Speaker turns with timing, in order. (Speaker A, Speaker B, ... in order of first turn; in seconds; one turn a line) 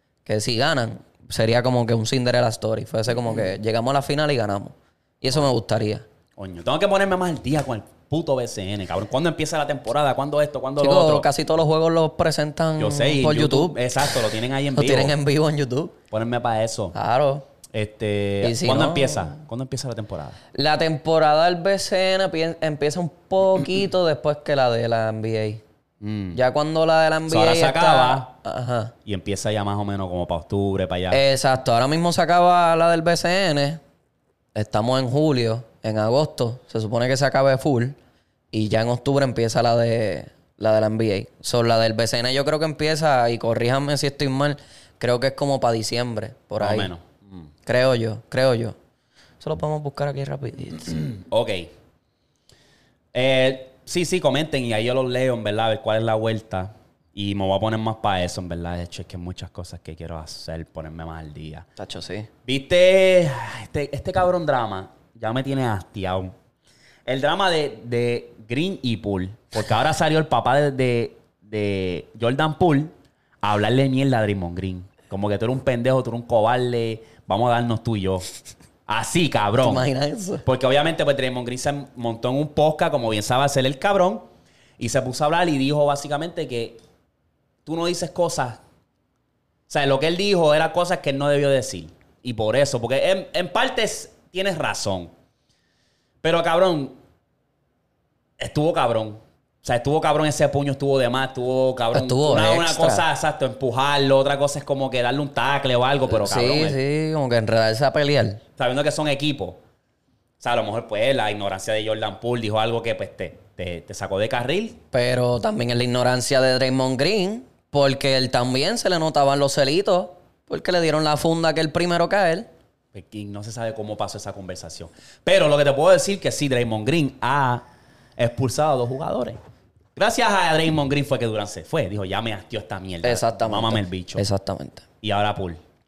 Speaker A: 0.2-6.0
Speaker B: 6.4-11.3
Speaker A: 10.8-14.1
Speaker B: 12.8-15.1
Speaker A: 14.7-15.9
Speaker B: 16.1-16.9
Speaker A: 16.9-17.4
Speaker B: 17.7-20.4
Speaker A: 18.4-19.4
Speaker A: 20.5-25.6
Speaker B: 26.0-26.4
Speaker A: 26.3-28.9
Speaker B: 27.3-28.3
Speaker B: 29.0-31.2
Speaker A: 31.1-33.8
Speaker A: 34.5-38.0
Speaker A: 38.5-46.9
Speaker B: 46.6-47.5
Speaker A: 47.6-48.8
Speaker A: 49.4-51.1
Speaker B: 50.9-51.7
Speaker B: 53.1-61.6
Speaker A: 61.8-62.3
Speaker B: 62.4-66.3
Speaker B: 67.0-78.2
Speaker B: 78.9-79.9
Speaker A: 79.6-80.4
Speaker B: 80.4-84.2
Speaker B: 84.8-86.8
Speaker B: 87.6-88.6
Speaker B: 89.7-95.1
Speaker B: 96.2-97.0
Speaker B: 98.4-106.8
Speaker A: 101.9-103.0
Speaker A: 106.1-108.4
Speaker B: 108.6-109.6
Speaker B: 110.4-114.8
Speaker A: 114.9-122.5
Speaker B: 122.9-127.6
Speaker B: 128.2-129.4
Speaker B: 129.9-134.2
Speaker A: 133.0-134.8
Speaker B: 135.0-135.6